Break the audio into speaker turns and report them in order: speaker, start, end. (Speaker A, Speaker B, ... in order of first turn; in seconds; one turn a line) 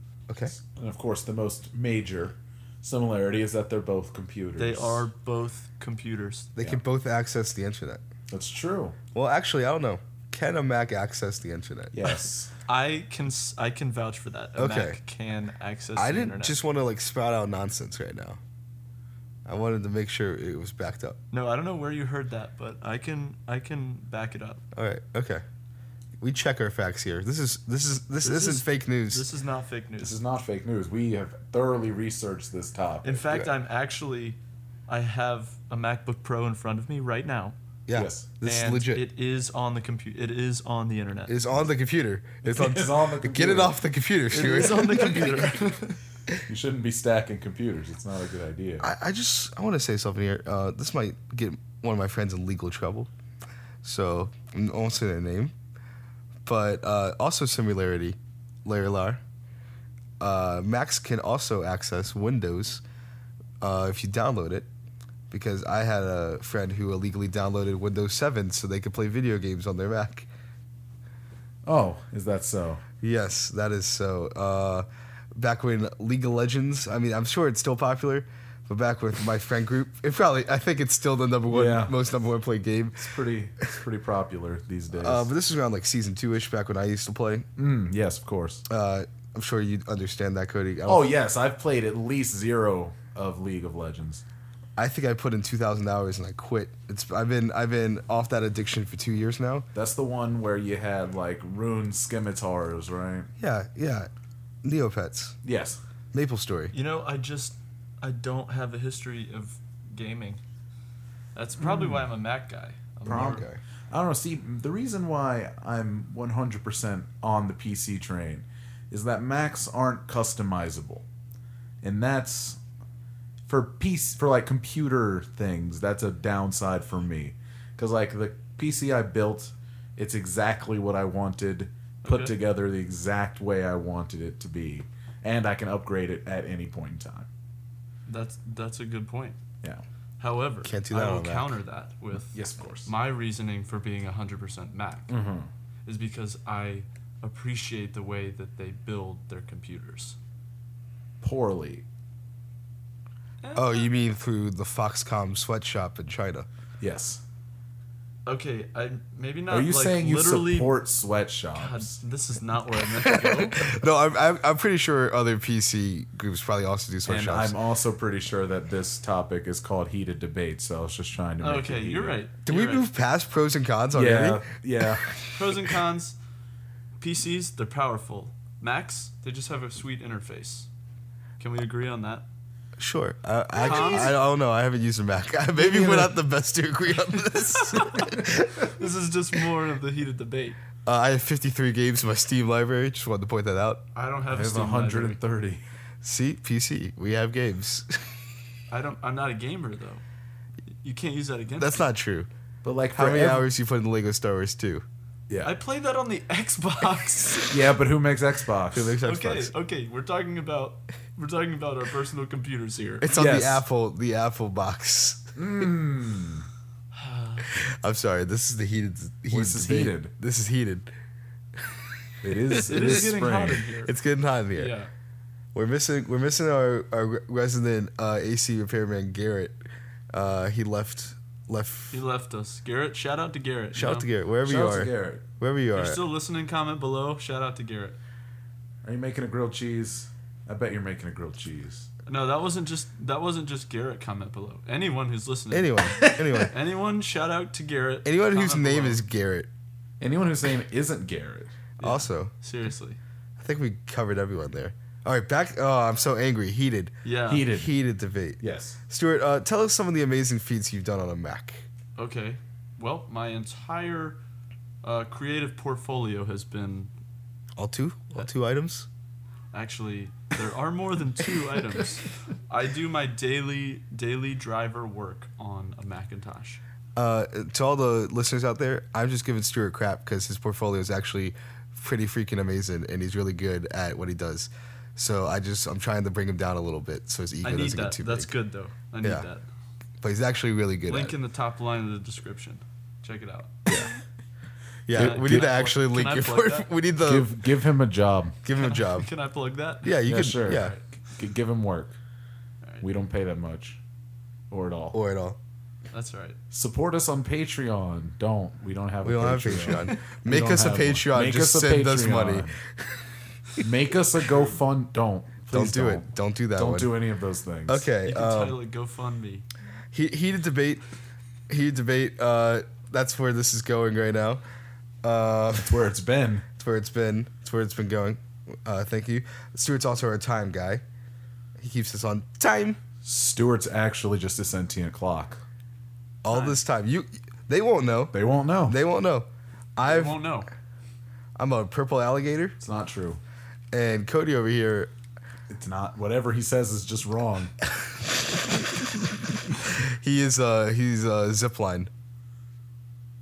Speaker A: 0.3-0.5
Speaker B: 0.6-5.1
Speaker C: 4.6-6.6
Speaker A: 6.6-8.0
Speaker B: 8.3-9.0
Speaker A: 9.1-12.1
Speaker B: 11.9-12.5
Speaker C: 12.7-16.6
Speaker A: 14.6-15.0
Speaker A: 16.0-18.4
Speaker A: 19.5-21.2
Speaker C: 21.3-24.6
Speaker A: 24.7-25.4
Speaker A: 26.2-29.3
Speaker C: 28.2-30.2
Speaker B: 30.0-33.2
Speaker C: 33.0-37.6
Speaker A: 37.9-39.0
Speaker B: 37.9-38.3
Speaker C: 38.4-41.4
Speaker A: 41.3-45.5
Speaker B: 42.4-43.8
Speaker C: 44.3-46.0
Speaker B: 44.4-45.5
Speaker B: 46.4-48.9
Speaker A: 48.8-53.1
Speaker A: 53.8-55.5
Speaker A: 56.5-59.2
Speaker A: 60.2-62.8
Speaker A: 63.6-64.7
Speaker A: 65.3-70.3
Speaker B: 71.7-72.8
Speaker A: 73.0-83.1
Speaker B: 81.5-82.0
Speaker B: 83.0-85.3
Speaker A: 84.9-87.5
Speaker B: 87.6-88.7
Speaker A: 88.7-91.1
Speaker B: 90.9-94.2
Speaker A: 94.8-99.7
Speaker B: 99.8-103.3
Speaker A: 103.4-104.1
Speaker A: 104.6-105.4
Speaker B: 105.4-105.8
Speaker A: 106.1-106.7
Speaker C: 106.7-110.4
Speaker C: 111.3-113.5
Speaker B: 111.6-112.1
Speaker B: 113.1-121.0
Speaker A: 113.1-113.6
Speaker B: 121.8-122.6
Speaker B: 123.5-137.3
Speaker C: 132.0-132.3
Speaker C: 138.1-139.4
Speaker C: 140.2-145.1
Speaker A: 140.6-141.6
Speaker B: 142.3-142.9
Speaker B: 145.1-145.5
Speaker C: 145.9-150.2
Speaker B: 151.2-151.8
Speaker C: 153.4-153.9
Speaker A: 153.6-156.5
Speaker B: 156.8-157.2
Speaker C: 158.3-160.8
Speaker B: 159.5-162.0
Speaker C: 161.6-163.8
Speaker A: 163.0-167.6
Speaker B: 167.1-172.2
Speaker C: 171.4-172.9
Speaker A: 172.5-175.3
Speaker B: 173.9-175.1
Speaker C: 175.3-176.2
Speaker C: 177.0-180.7
Speaker C: 181.4-182.3
Speaker A: 182.8-188.7
Speaker C: 183.6-184.2
Speaker C: 187.5-190.6
Speaker A: 190.8-193.8
Speaker C: 193.9-195.2
Speaker B: 194.3-195.6
Speaker A: 196.0-198.1
Speaker C: 198.7-200.0
Speaker C: 200.8-201.8
Speaker A: 201.6-202.3
Speaker B: 202.6-203.5
Speaker A: 202.9-204.8
Speaker B: 205.3-205.5
Speaker C: 205.4-207.6
Speaker B: 207.5-209.0
Speaker A: 208.7-209.5
Speaker C: 209.0-213.1
Speaker A: 213.0-215.3
Speaker B: 213.1-213.7
Speaker B: 215.4-216.5
Speaker C: 216.9-217.5
Speaker A: 217.5-220.9
Speaker B: 219.3-220.1
Speaker A: 221.6-221.9
Speaker B: 222.2-223.7
Speaker A: 222.5-223.1
Speaker C: 222.7-223.9
Speaker A: 223.8-224.8
Speaker C: 224.5-224.9
Speaker A: 225.5-229.6
Speaker A: 230.1-232.0
Speaker C: 231.9-234.1
Speaker A: 233.8-236.0
Speaker B: 234.4-235.2
Speaker C: 235.7-238.0
Speaker B: 238.8-241.9
Speaker C: 242.1-249.0
Speaker A: 245.5-246.5
Speaker A: 248.1-249.5
Speaker B: 250.0-251.6
Speaker C: 251.8-253.0
Speaker A: 251.8-252.3
Speaker A: 253.4-261.7
Speaker C: 257.0-257.4
Speaker B: 257.3-257.7
Speaker B: 258.4-258.8
Speaker C: 262.0-264.2
Speaker C: 264.8-266.9
Speaker A: 267.6-268.9
Speaker C: 269.5-276.6
Speaker A: 277.0-288.3
Speaker C: 287.4-289.5
Speaker A: 289.0-289.3
Speaker A: 290.0-291.2
Speaker C: 290.9-293.6
Speaker A: 294.9-297.3
Speaker B: 294.9-295.5
Speaker C: 294.9-296.7
Speaker B: 297.0-298.4
Speaker A: 298.4-299.1
Speaker C: 298.6-300.8
Speaker A: 299.8-300.7
Speaker B: 300.1-302.0
Speaker B: 302.8-303.8
Speaker B: 304.5-305.0
Speaker A: 304.9-305.4
Speaker C: 305.9-306.4
Speaker B: 306.5-312.6
Speaker A: 309.0-313.0
Speaker B: 313.6-317.9
Speaker A: 315.5-316.9
Speaker A: 317.7-318.6
Speaker C: 318.0-319.5
Speaker A: 319.9-320.8
Speaker A: 321.5-324.4
Speaker A: 325.0-325.9
Speaker B: 325.5-326.5
Speaker A: 326.6-330.8
Speaker A: 331.6-332.8
Speaker B: 333.0-335.4
Speaker A: 336.2-338.1
Speaker C: 336.3-336.6
Speaker B: 338.1-338.8
Speaker A: 338.7-340.2
Speaker C: 339.8-340.5
Speaker A: 341.4-342.6
Speaker B: 342.6-343.2
Speaker A: 343.7-344.9
Speaker B: 345.5-347.5
Speaker A: 349.5-351.9